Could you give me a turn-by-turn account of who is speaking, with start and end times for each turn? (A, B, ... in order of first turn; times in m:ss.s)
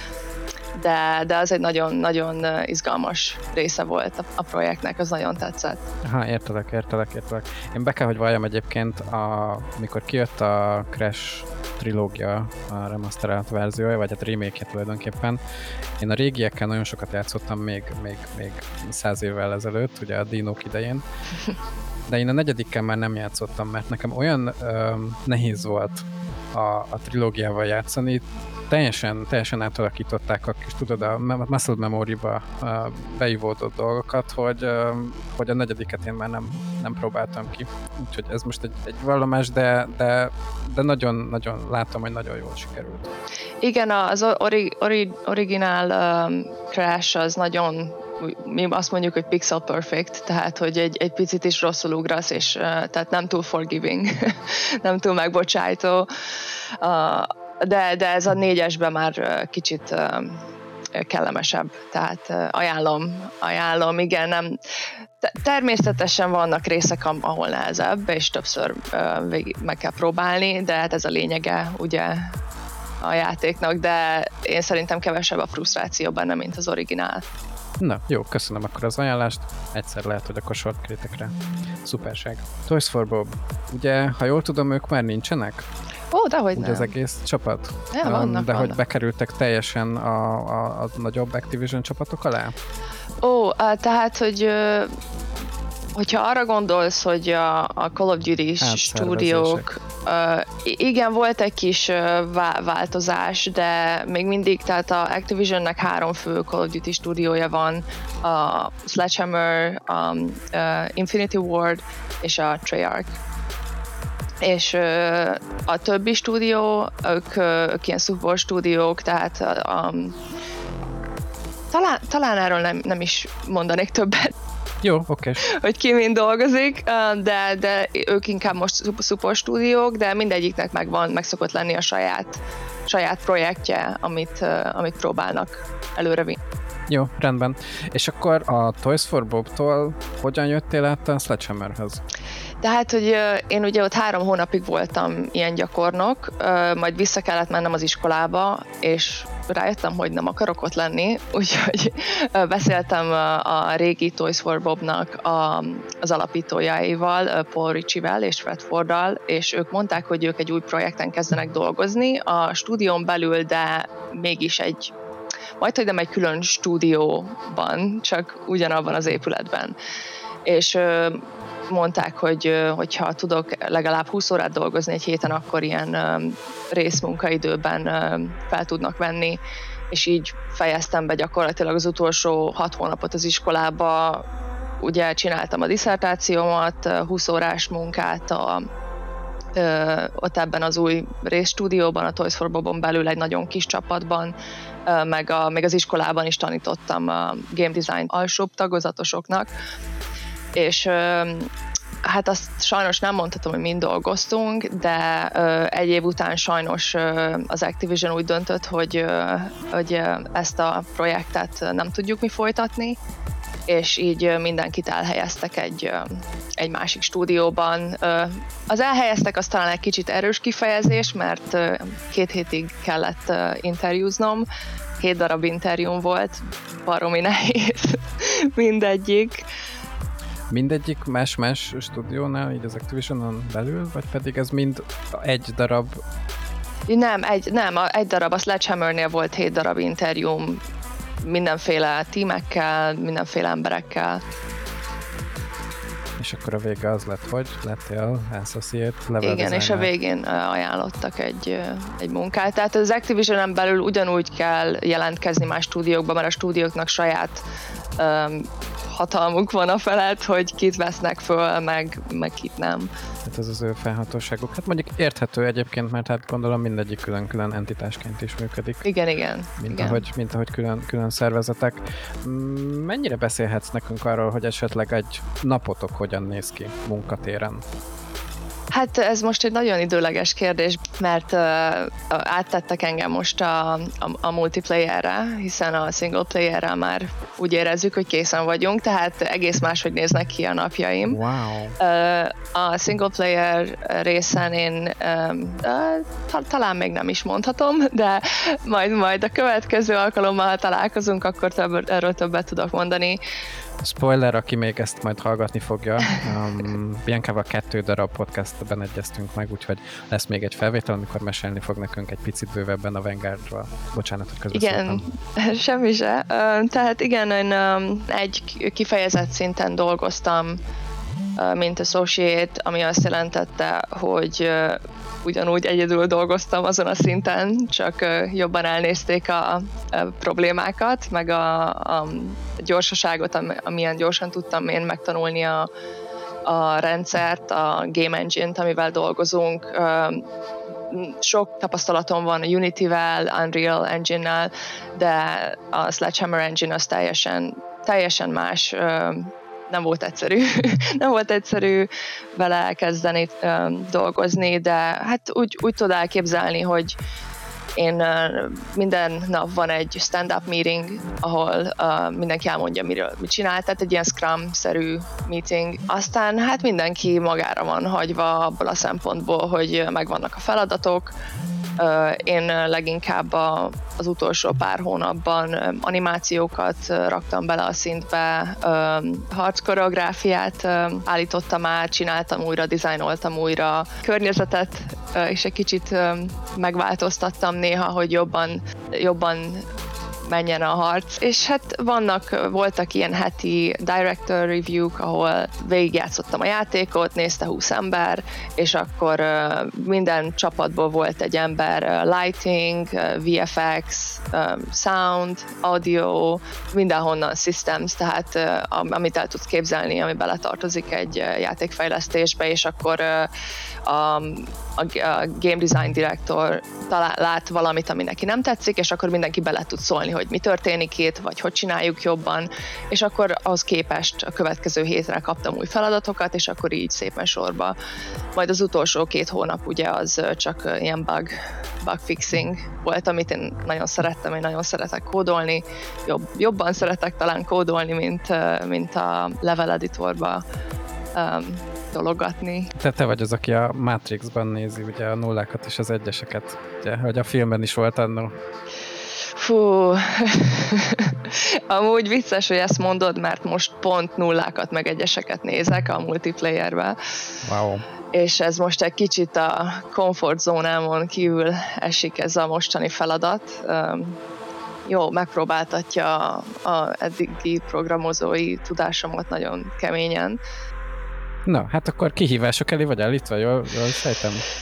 0:00.8-0:05.8 A
0:06.0-0:15.4 B
0:16.0-0:21.0 B
0:22.1-0:43.1 B
0:43.6-0:56.1 A
0:56.8-1:00.4 A
1:01.0-1:04.6 A
1:05.2-1:12.4 A
1:13.0-1:17.2 A
1:17.8-1:25.7 B
1:26.1-1:27.0 A
1:26.5-1:32.6 B
1:27.9-1:28.8 A
1:33.2-1:34.9 A
1:36.0-1:53.2 A
1:38.6-1:39.7 B
1:54.4-2:00.2 A
2:01.7-2:04.4 A
2:04.8-2:05.4 B
2:05.4-2:16.4 A
2:16.9-2:22.0 B
2:22.6-2:44.9 A
2:45.6-2:49.8 A
2:50.4-3:04.3 A
3:04.8-3:08.6 A
3:09.6-3:14.4 A
3:14.9-3:19.5 A
3:20.6-3:21.5 A
3:22.0-3:33.0 A
3:33.7-3:44.5 A
3:45.0-3:49.5 A
3:50.5-3:56.0 B
3:56.9-4:00.6 A
4:01.2-4:04.2 A
4:06.2-4:09.9 B
4:09.2-4:17.4 A
4:18.0-4:22.9 A
4:23.2-4:28.8 B
4:28.8-4:30.0 A
4:29.6-4:37.6 B
4:38.7-4:51.2 A
4:51.1-4:51.8 B
4:51.8-5:03.2 A
5:03.8-5:15.1 B
5:14.5-5:20.6 A
5:21.4-5:35.7 A
5:36.4-5:40.3 A
5:40.9-5:57.0 A
5:57.8-6:11.1 A
6:11.8-6:29.7 A
6:30.2-6:53.3 A
6:53.8-7:07.8 A
7:08.3-7:20.4 A
7:21.1-7:22.7 A
7:22.8-7:28.4 B
7:29.4-7:37.2 A
7:37.4-7:37.8 B
7:38.1-7:44.2 A
7:44.9-7:50.4 A
7:51.5-7:54.4 B